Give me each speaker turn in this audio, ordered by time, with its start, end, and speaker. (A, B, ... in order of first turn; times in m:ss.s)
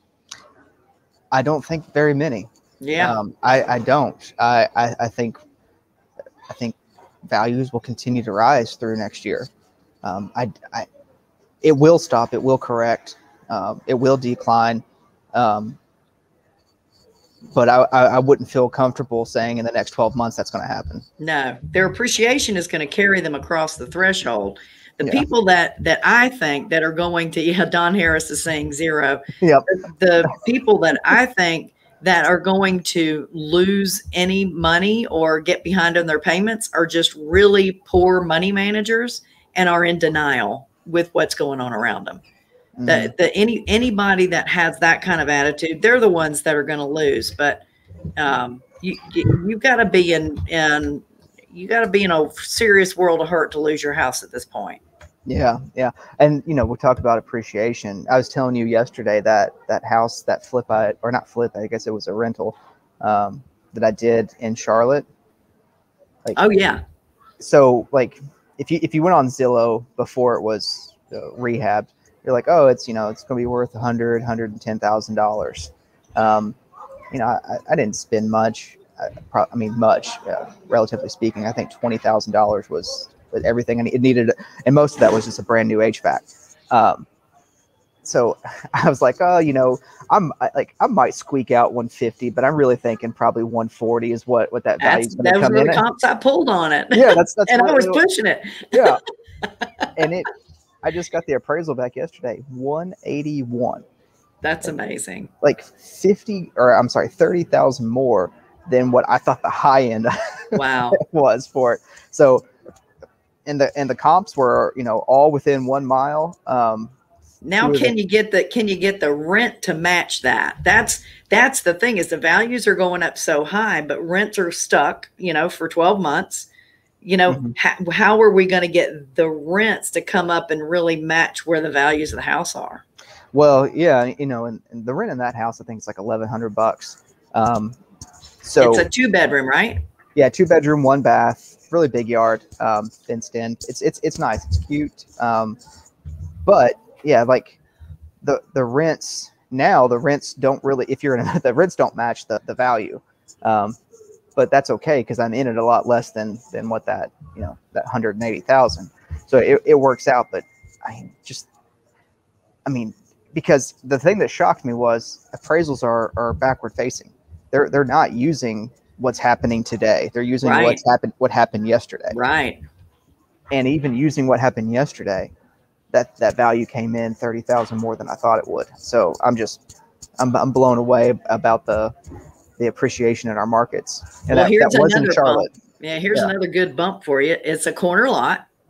0:01.3-0:05.4 A
0:02.8-0:03.2 B
0:06.5-0:06.8 A
0:07.3-0:09.5 A
0:10.0-0:10.9 A
0:11.6-0:14.8 A
0:15.3-0:15.8 A
0:17.5-0:21.0 A
0:21.2-0:42.2 B
0:25.0-0:25.3 A
0:29.4-0:29.7 A
0:42.8-0:43.1 A
0:42.8-0:47.6 B
0:48.2-0:54.8 B
0:55.3-1:05.1 A
1:06.4-1:06.8 B
1:07.4-1:16.6 A
1:17.1-1:27.1 A
1:28.0-1:35.8 A
1:34.8-1:39.9 B
1:36.9-1:38.0 A
1:38.7-1:39.0 A
1:40.0-1:40.3 A
1:40.8-1:43.8 A
1:44.4-1:45.3 B
1:45.4-1:52.4 A
1:50.5-1:51.0 B
1:53.4-1:56.9 A
1:57.4-2:06.5 B
1:57.6-1:57.9 A
2:07.0-2:12.8 B
2:07.3-2:07.5 A
2:13.3-2:17.8 A
2:18.4-2:18.9 A
2:18.6-2:19.8 B
2:20.1-2:25.6 A
2:26.4-2:27.6 A
2:28.2-2:33.8 A
2:34.4-2:41.5 A
2:42.7-2:52.2 A
2:50.4-2:50.8 B
2:52.1-2:52.6 B
2:53.5-2:55.3 A
2:55.9-2:59.6 A
3:00.2-3:01.9 A
3:02.6-3:05.5 A
3:04.3-3:08.4 B